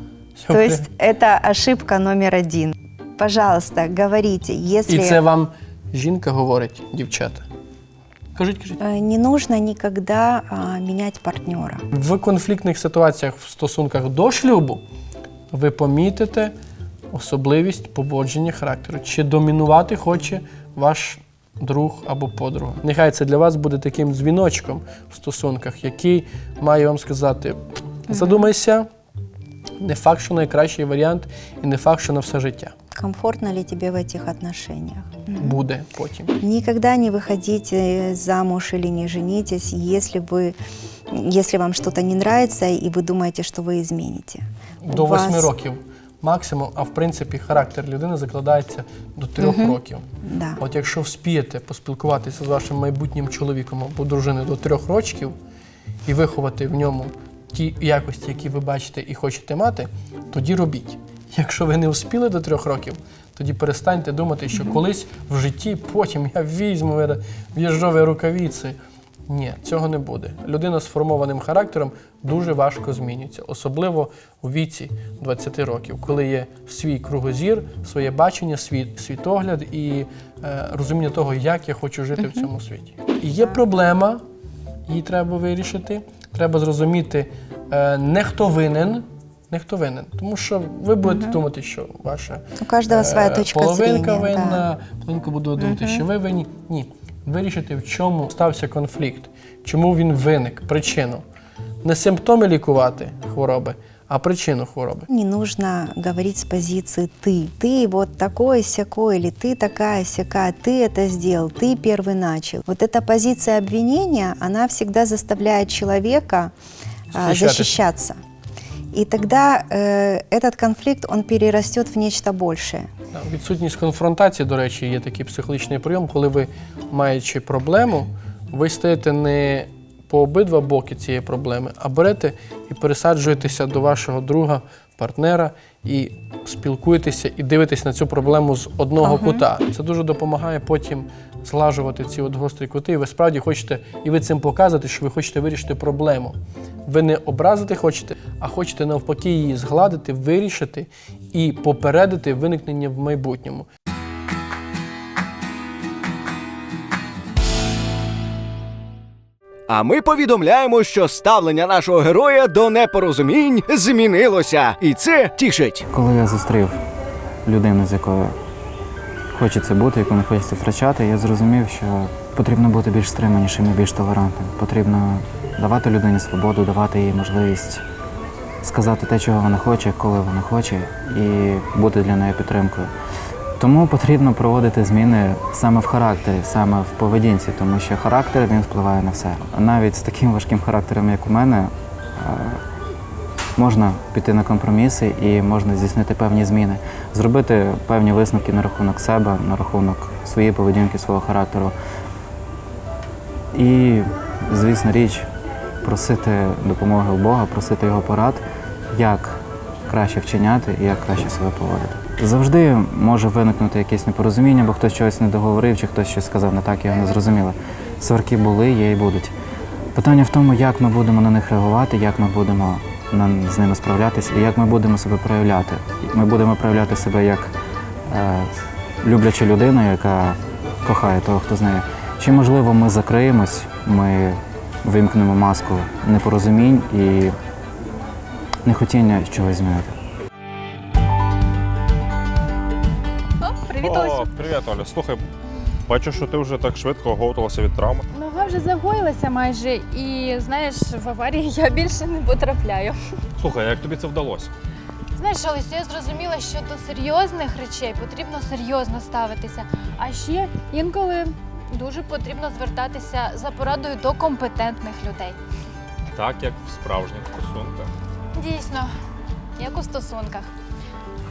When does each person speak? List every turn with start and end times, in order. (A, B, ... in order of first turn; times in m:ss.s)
0:00.4-0:00.9 A
0:00.5-0:05.2 B
0:04.9-0:07.5 A
0:08.4-0:08.8 A
0:08.8-0:11.8 B
0:11.9-0:14.8 A
0:15.5-0:16.6 A
0:17.1-0:28.9 A
0:28.1-0:28.5 B
0:29.8-0:32.7 A
0:33.0-0:35.6 B
0:35.4-0:36.3 A
0:36.4-0:40.6 B
0:41.1-0:45.5 B
0:44.8-0:50.1 A
0:49.4-0:50.6 B
0:50.6-0:55.4 A
0:56.0-1:24.2 A
1:22.2-1:22.5 B
1:24.9-1:41.2 A
1:31.0-1:31.4 B
1:32.6-1:34.6 B
1:35.6-1:36.0 B
1:41.8-1:45.1 A
1:45.1-1:56.5 B
1:57.1-1:58.2 B
1:57.2-1:57.8 A
1:58.9-2:02.9 B
2:03.1-2:33.7 A
2:19.0-2:19.4 B
2:39.7-2:45.8 C
2:45.9-2:46.8 D
2:47.5-2:48.4 D
2:49.3-2:57.8 D
2:58.6-3:02.9 D
3:03.6-3:12.6 D
3:13.6-3:21.7 D
3:23.5-3:25.3 D
3:25.8-3:39.3 D
3:40.0-3:47.5 D
3:48.1-3:48.5 D
3:49.0-3:57.4 D
3:58.6-4:00.0 D
4:03.4-4:04.3 E
4:03.8-4:05.2 F
4:05.9-4:08.0 F
4:08.1-4:13.0 E
4:13.4-4:14.5 F
4:15.1-4:25.4 E
4:26.1-4:27.9 F
4:28.4-4:28.9 E
4:29.6-4:30.5 E